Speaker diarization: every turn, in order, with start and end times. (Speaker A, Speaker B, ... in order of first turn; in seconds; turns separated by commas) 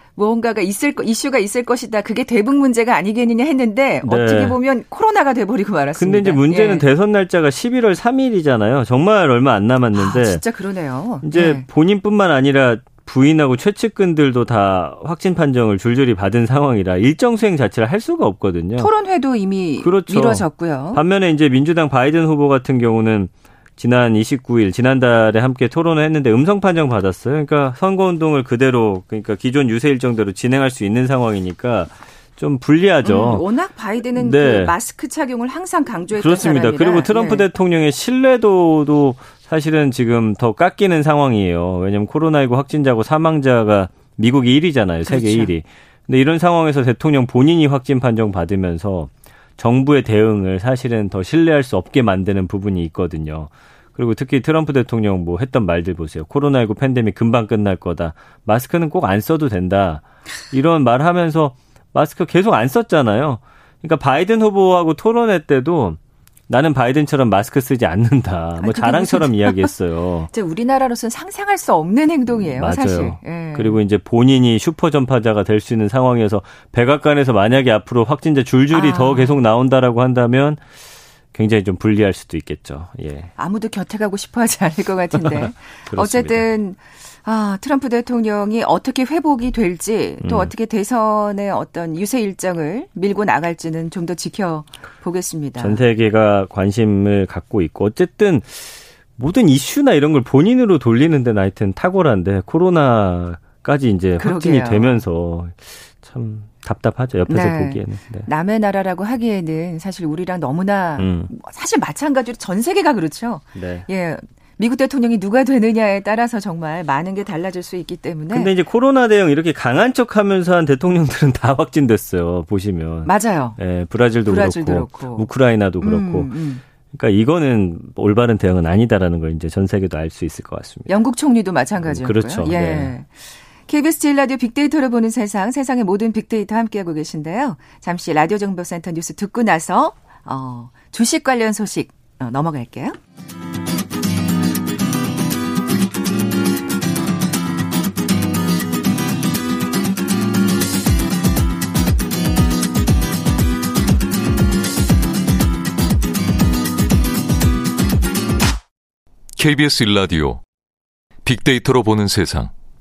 Speaker A: 0.2-6.8, Speaker B: 4.0-4.6, Speaker B: 6.0-10.4, Speaker A: 9.9-11.7, Speaker B: 11.2-18.9, Speaker A: 18.8-21.0, Speaker B: 19.8-33.5, Speaker A: 33.0-37.5, Speaker B: 34.1-34.8, Speaker B: 36.1-70.3, Speaker A: 45.1-45.5, Speaker A: 68.6-69.7, Speaker A: 70.3-73.8, Speaker B: 72.3-80.6, Speaker A: 78.7-79.4, Speaker B: 81.3-83.3, Speaker A: 83.4-95.8, Speaker B: 85.3-86.5, Speaker B: 90.2-90.5, Speaker B: 95.6-108.3, Speaker A: 104.2-105.0, Speaker A: 107.3-118.5, Speaker B: 111.0-111.3, Speaker B: 113.5-113.9, Speaker B: 118.3-126.3, Speaker A: 123.0-123.6, Speaker A: 124.2-125.3, Speaker A: 125.8-126.6, Speaker B: 126.9-130.9, Speaker A: 130.9-133.1, Speaker B: 131.8-132.9, Speaker A: 133.7-143.0, Speaker C: 159.4-160.4, Speaker C: 161.2-162.5